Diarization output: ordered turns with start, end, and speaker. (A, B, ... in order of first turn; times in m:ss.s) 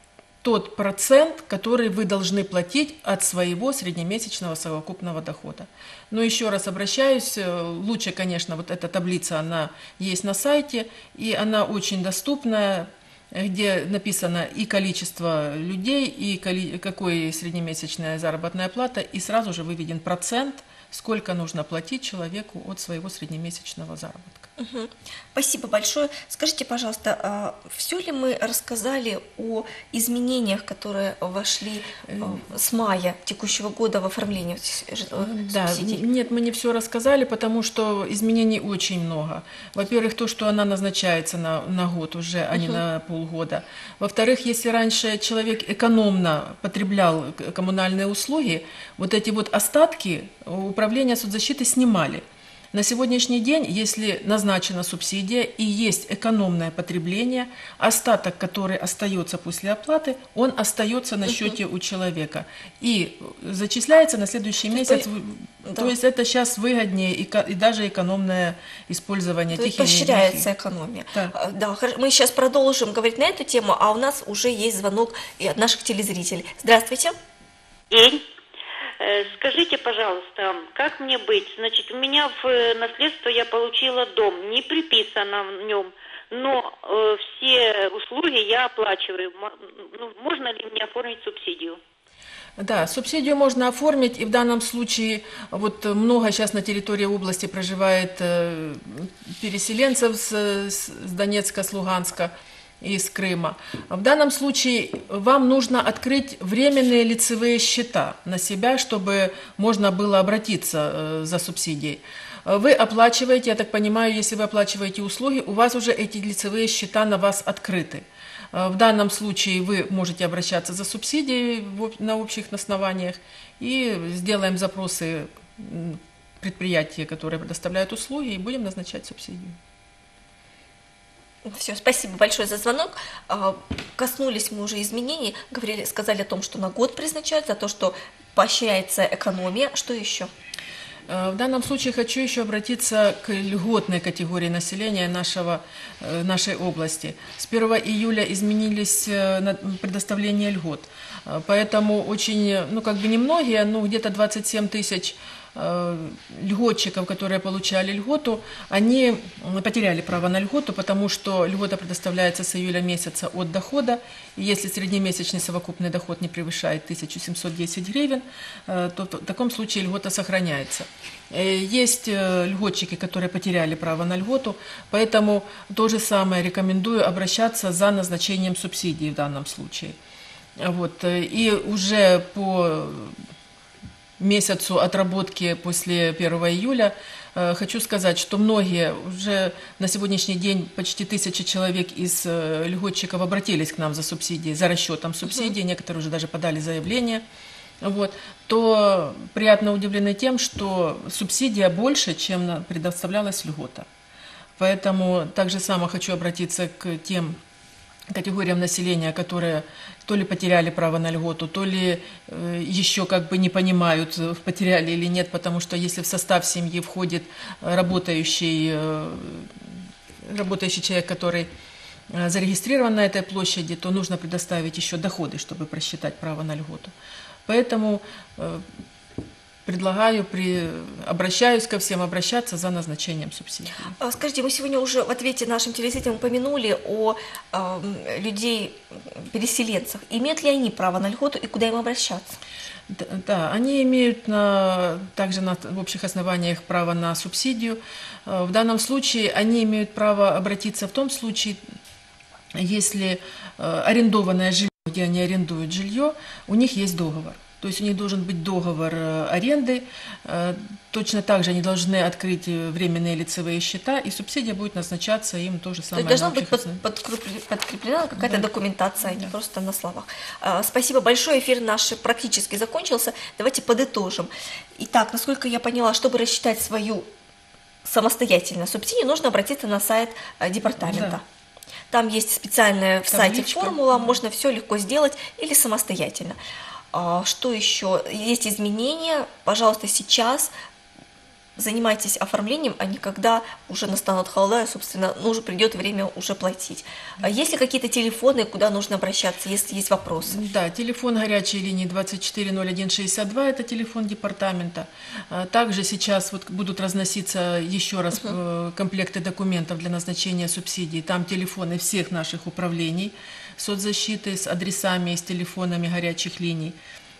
0:00.4-0:24.5 A
0:24.6-0:36.0 B
0:32.1-0:32.4 A
0:35.2-1:10.5 A
0:42.5-0:42.8 B
1:01.2-1:01.6 B
1:04.7-1:05.1 B
1:05.6-1:05.9 B
1:09.5-1:17.1 B
1:17.9-1:18.2 C
1:19.0-1:31.8 C
1:32.6-2:09.6 A
2:11.4-2:20.3 B
2:21.1-3:00.0 A
3:00.6-3:03.1 A
3:04.2-3:17.2 A
3:15.2-3:15.5 B
3:17.8-3:23.9 A
3:24.6-3:27.4 A
3:28.1-3:39.6 A
3:40.2-3:41.5 A
3:42.1-3:46.9 A
3:47.5-3:48.6 A
3:49.6-3:54.0 A
3:54.0-4:02.4 B
4:02.9-4:11.6 A
4:12.5-4:26.8 A
4:25.9-4:37.1 B
4:28.2-4:28.5 A
4:37.8-4:41.2 B
4:40.8-4:41.2 A
4:41.9-4:46.4 B
4:43.1-4:44.2 A
4:46.9-4:50.5 B
4:51.6-5:00.4 B
5:00.3-5:16.8 A